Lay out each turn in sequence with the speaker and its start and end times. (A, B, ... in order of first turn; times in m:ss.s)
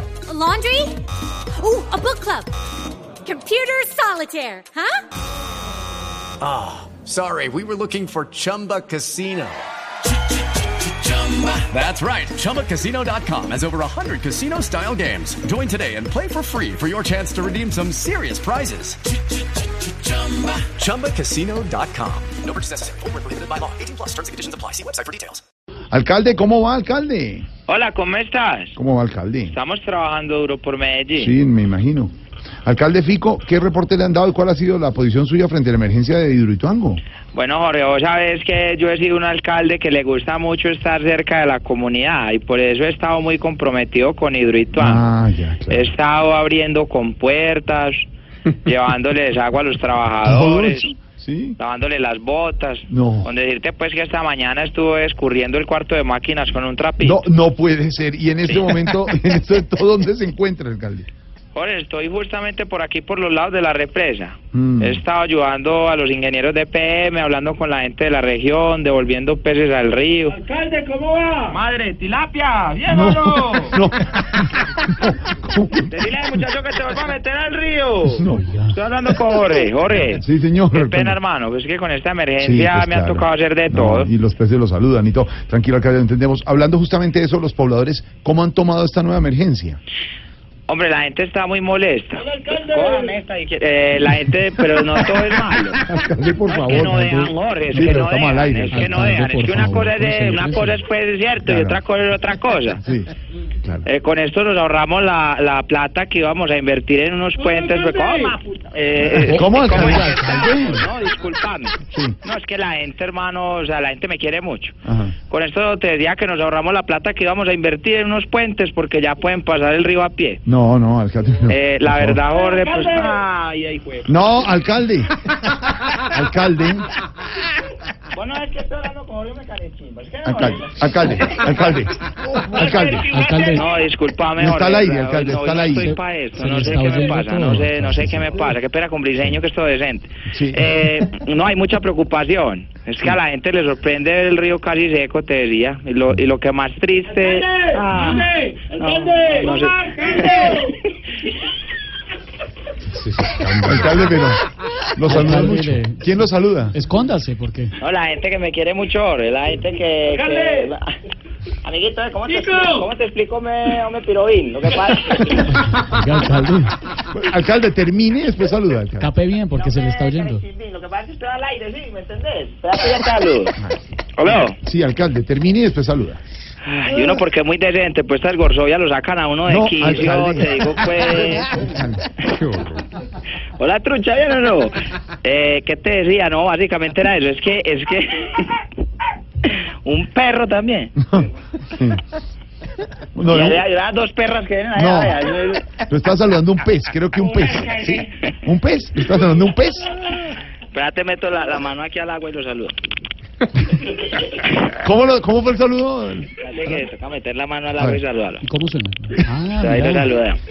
0:00.3-0:01.0 A
0:01.6-0:02.5 A
0:03.2-0:05.0 A
0:06.4-0:09.7 B
0:10.8-0:25.4 B
0:25.9-0:27.5 C
0:27.7-0:28.8 D
0:28.8-0:29.6 C
0:29.5-0:31.3 D
0:31.2-0:32.1 C
0:32.6-0:37.0 C
0:37.3-0:45.1 D
0:44.8-0:45.9 C
0:45.7-0:48.1 D
0:48.6-0:51.0 D
0:50.2-0:51.6 C
0:51.6-0:57.2 D
0:52.9-0:53.3 C
0:57.0-1:01.1 C
0:58.4-0:59.0 D
1:01.5-1:10.4 D
1:04.5-1:05.0 C
1:10.3-1:11.6 E
1:11.5-1:13.8 D
1:12.9-1:15.9 C
1:15.9-1:24.1 D
1:18.1-1:18.5 C
1:18.3-1:18.7 F
1:20.2-1:21.2 C
1:22.4-1:29.8 C
1:30.7-1:35.8 D
1:32.2-1:33.2 E
1:35.8-1:39.2 C
1:36.5-1:42.8 D
1:36.9-1:38.0 F
1:38.7-1:40.8 F
1:41.4-1:41.8 C
1:42.8-1:43.1 C
1:43.8-2:00.4 D
1:47.4-1:48.4 E
1:49.0-1:50.8 C
1:49.2-1:50.6 F
1:51.9-1:52.2 C
1:54.8-1:55.1 C
2:00.5-2:02.2 C
2:01.5-2:04.1 D
2:02.3-2:03.1 E
2:04.1-2:05.2 C
2:05.9-2:06.9 C
2:08.1-2:11.8 D
2:10.2-2:13.1 C
2:12.4-2:30.8 D
2:13.1-2:13.6 F
2:14.4-2:16.0 C
2:15.7-2:18.4 F
2:20.3-2:20.8 C
2:27.2-2:30.7 E
2:33.2-2:34.1 F
2:33.4-2:34.4 C
2:35.0-2:36.8 C
2:35.1-2:36.2 F
2:36.7-2:37.7 F
2:37.8-2:40.8 D
2:40.1-2:40.7 E
2:41.6-2:45.6 D
2:42.3-2:42.9 E
2:45.6-2:46.8 F
2:47.0-2:49.1 C
2:49.0-2:50.4 F
2:49.6-2:53.6 D
2:54.2-2:54.6 D
2:54.4-2:56.2 C
2:56.6-3:01.6 D
2:59.5-3:02.1 C
3:02.3-3:02.8 B
3:03.6-3:08.7 D
3:09.4-3:11.0 D
3:11.1-3:12.0 C
3:13.1-3:13.6 C
3:13.3-3:15.7 D
3:14.8-3:20.0 C
3:17.2-3:18.4 D
3:20.7-3:22.8 D
3:24.7-3:26.3 C
3:26.4-3:28.4 D
3:28.4-3:30.1 F
3:29.6-3:30.4 D